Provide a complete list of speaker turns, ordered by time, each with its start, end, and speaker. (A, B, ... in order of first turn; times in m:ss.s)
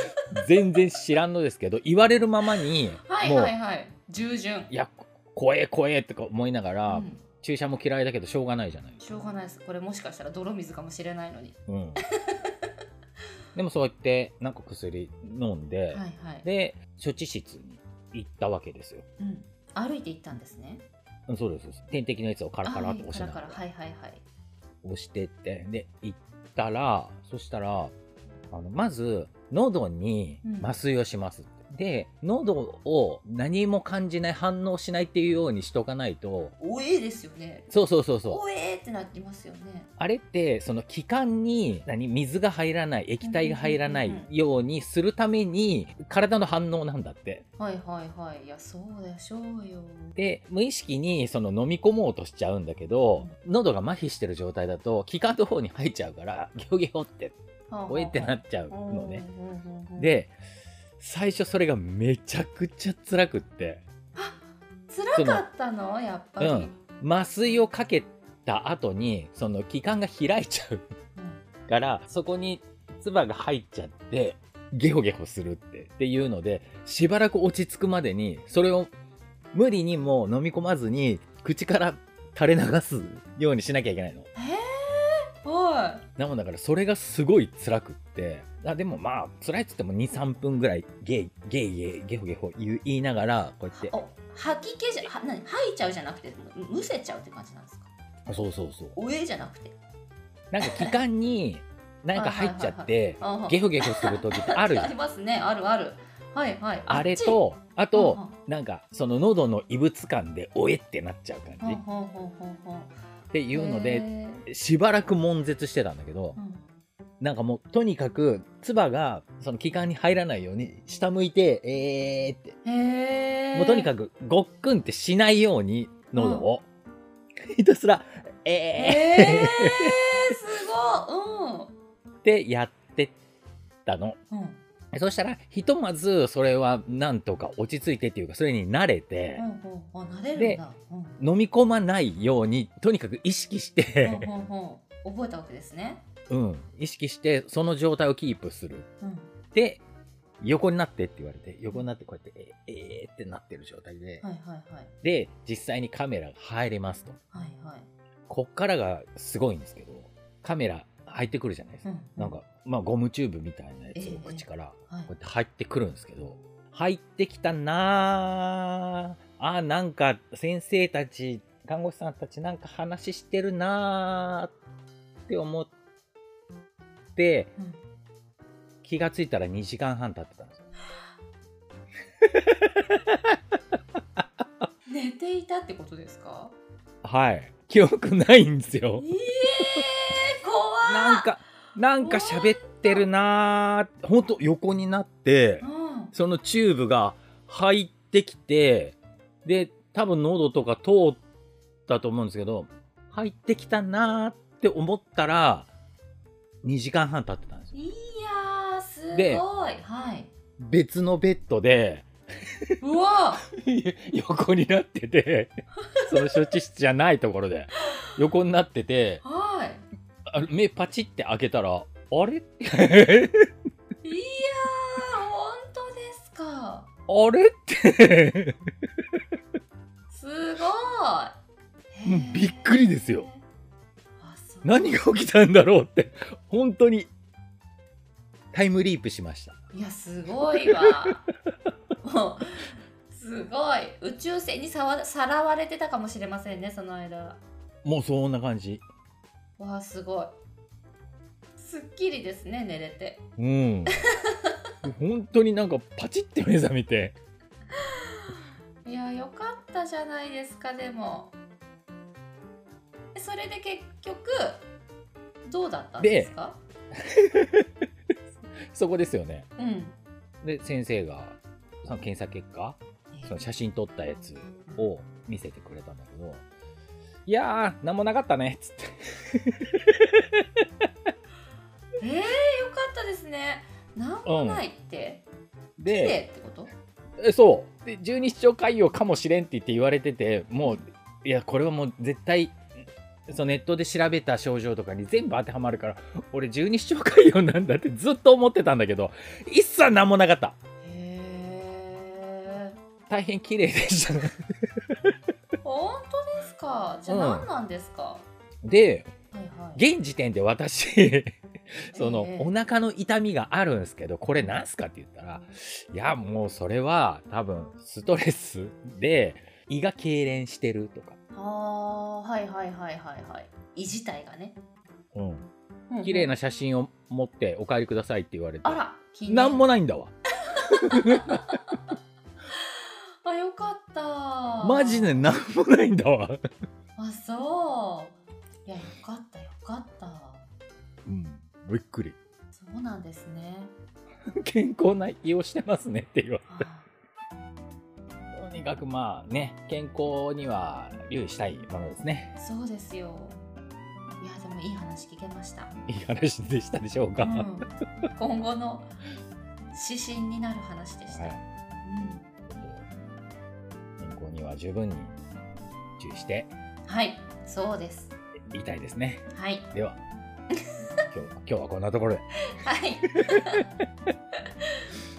0:00.3-0:03.5 A
0:03.0-0:04.7 B
0:04.7-0:09.0 A
0:06.8-0:07.2 B
0:09.0-0:12.5 B
0:11.7-0:12.0 A
0:13.5-0:19.0 A
0:15.9-0:16.5 B
0:19.2-0:20.8 B
0:21.3-0:23.6 A
0:22.6-0:24.2 B
0:24.8-0:27.9 A
0:28.5-0:36.5 A
0:30.4-0:30.7 B
0:36.6-0:37.7 B
0:37.7-0:38.4 A
0:38.3-0:39.9 B
0:40.0-0:47.4 A
0:43.2-0:44.3 B
0:47.6-0:50.2 B
0:50.2-0:57.4 A
0:57.7-1:00.2 B
0:57.9-0:59.2 A
1:00.0-1:00.3 A
1:01.0-1:03.8 A
1:04.1-1:06.8 B
1:05.1-1:05.4 A
1:06.4-1:10.8 A
1:11.2-1:11.4 B
1:11.7-1:18.9 A
1:19.5-1:24.3 A
1:24.3-1:26.0 B
1:26.2-1:33.9 A
1:33.7-1:37.9 B
1:38.3-1:39.0 A
1:38.9-1:39.7 B
1:40.5-1:44.9 A
1:40.6-1:40.9 B
1:42.1-1:47.4 B
1:46.9-1:51.8 A
1:47.9-1:48.3 B
1:51.6-1:53.0 B
1:53.3-1:56.4 A
1:53.5-1:54.4 B
1:56.4-1:56.6 B
1:57.2-2:02.5 A
2:02.6-2:03.9 B
2:03.5-2:06.6 A
2:06.1-2:06.5 B
2:07.5-2:10.0 A
2:08.7-2:11.7 B
2:12.2-2:13.1 A
2:13.8-2:14.2 A
2:14.3-2:14.6 B
2:14.9-2:19.4 A
2:19.4-2:21.2 B
2:20.4-2:20.6 A
2:21.2-2:24.3 A
2:24.0-2:26.0 B
2:26.3-2:28.9 A
2:29.0-2:29.3 B
2:29.5-2:29.8 A
2:30.4-2:34.2 A
2:34.2-2:34.9 B
2:35.0-2:37.2 A
2:37.3-2:37.9 B
2:38.3-2:54.5 A
2:41.8-2:42.4 B
2:43.9-2:45.1 B
2:55.3-2:55.7 A
2:57.2-2:57.5 A
2:58.8-3:00.6 A
3:02.3-3:03.1 A
3:04.9-3:06.5 B
3:07.0-3:09.1 A
3:09.0-3:11.3 B
3:10.8-3:21.2 A
3:12.0-3:13.1 B
3:15.6-3:16.1 B
3:21.9-3:25.7 A
3:26.6-3:27.8 A
3:27.7-3:30.3 B
3:29.1-3:29.4 A
3:30.6-3:32.1 A
3:32.8-3:33.4 B
3:33.5-3:39.2 A
3:39.2-3:39.8 B
3:40.3-3:43.3 A
3:44.0-3:46.9 B
3:47.1-3:48.5 A
3:50.1-3:51.4 B
3:51.9-3:53.4 B
3:52.0-3:53.3 A
3:54.2-3:55.0 B
3:54.6-3:57.1 A
3:58.5-3:59.5 A
3:59.7-4:01.2 B
4:00.6-4:00.9 A
4:02.0-4:07.4 B
4:07.8-4:08.8 A
4:09.6-4:10.4 B
4:11.6-4:13.2 B
4:13.4-4:14.0 A
4:13.9-4:14.5 B
4:14.8-4:17.1 A
4:18.8-4:21.3 B
4:23.1-4:24.6 B
4:25.4-4:26.6 B
4:26.0-4:26.3 A
4:27.2-4:27.6 A
4:28.7-4:29.5 A
4:29.6-4:30.0 B
4:30.4-4:36.4 A
4:33.1-4:33.4 B
4:37.2-4:40.2 A
4:42.0-4:45.2 B
4:44.2-4:44.6 A
4:45.8-4:46.2 A
4:45.8-4:46.7 B
4:47.2-4:52.6 A
4:53.3-5:00.6 A
5:00.8-5:02.8 B
5:03.1-5:04.4 A
5:05.6-5:08.2 B
5:07.1-5:07.5 A
5:08.6-5:09.1 A
5:09.3-5:09.8 B
5:09.8-5:11.3 A
5:11.9-5:12.5 B
5:11.9-5:21.2 A
5:14.4-5:14.6 B
5:21.3-5:24.6 B
5:25.1-5:25.5 A
5:25.9-5:26.3 B
5:26.0-5:30.1 A
5:28.6-5:29.7 B
5:30.5-5:31.6 B
5:30.7-5:31.4 A
5:32.6-5:35.3 B
5:34.6-5:36.4 A
5:37.0-5:40.4 B
5:41.0-5:42.2 A
5:42.5-5:43.7 B
5:44.4-5:46.6 A
5:46.5-5:46.9 B
5:48.3-5:52.3 A
5:52.4-5:53.4 B
5:54.2-5:55.7 B
5:55.9-5:57.5 A
5:57.2-5:58.9 B
5:59.7-6:02.3 B
6:01.1-6:01.4 A
6:02.5-6:02.8 A
6:04.0-6:05.2 A
6:06.0-6:06.5 A
6:06.8-6:08.1 B
6:08.5-6:10.0 A
6:09.3-6:09.7 B
6:10.5-6:10.8 B
6:11.1-6:12.2 A
6:12.6-6:13.6 B